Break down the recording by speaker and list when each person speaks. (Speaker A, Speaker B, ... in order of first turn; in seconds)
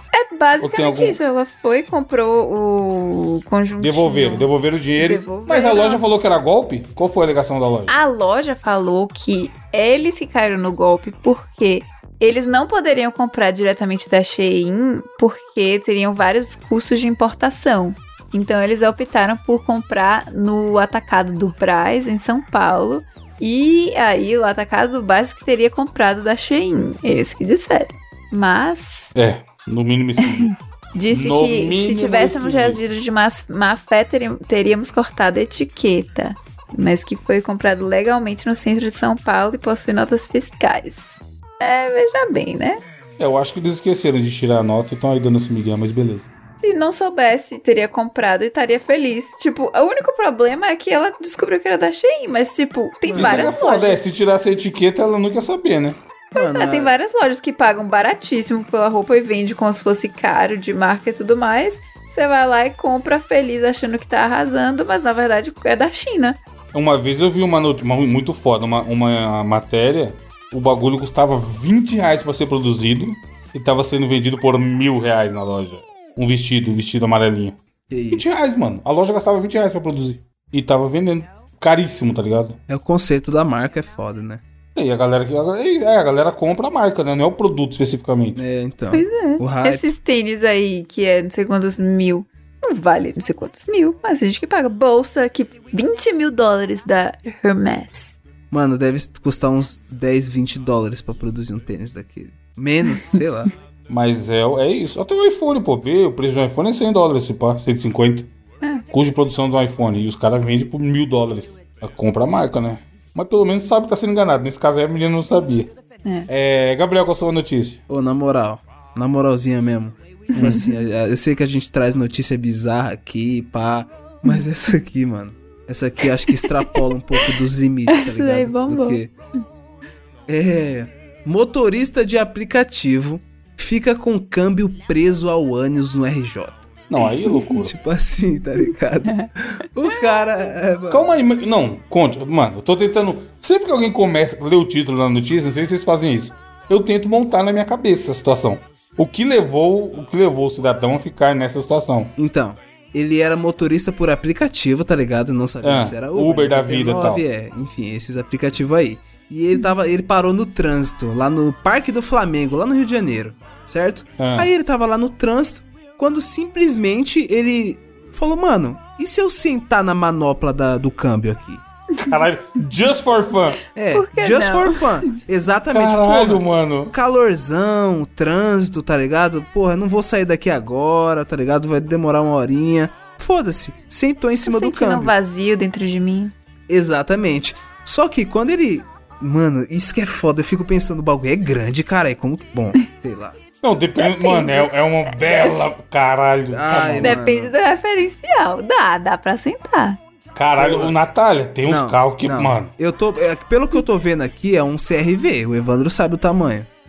Speaker A: 0.1-6.0, 7.9-29.1, 30.2-42.8, 46.6-54.1, 56.3-66.4, 88.9-98.2, 120.3-120.7, 126.4-126.8, 127.9-129.0, 173.9-175.2, 184.4-186.3, 194.0-195.6, 197.0-200.0
Speaker B: 0.6-1.2, 3.8-7.9, 29.1-30.5, 31.1-32.8, 43.2-46.3, 53.1-56.0, 66.7-77.6, 78.1-82.6, 84.7-88.4, 103.9-108.3, 108.9-115.7, 116.3-117.8, 120.3-120.6, 136.9-137.7, 140.9-152.1, 155.6-157.2, 164.2-164.5, 172.0-173.6, 175.7-176.9, 193.6-197.2, 200.3-202.7
Speaker C: 53.1-53.5, 56.3-56.9, 77.9-78.4, 82.7-84.4, 88.3-89.9, 98.5-103.5, 117.9-129.1, 130.3-136.7, 137.3-141.1, 152.2-171.6, 173.7-185.1, 186.7-193.4, 196.5-197.5, 200.6-200.9, 201.6-206.7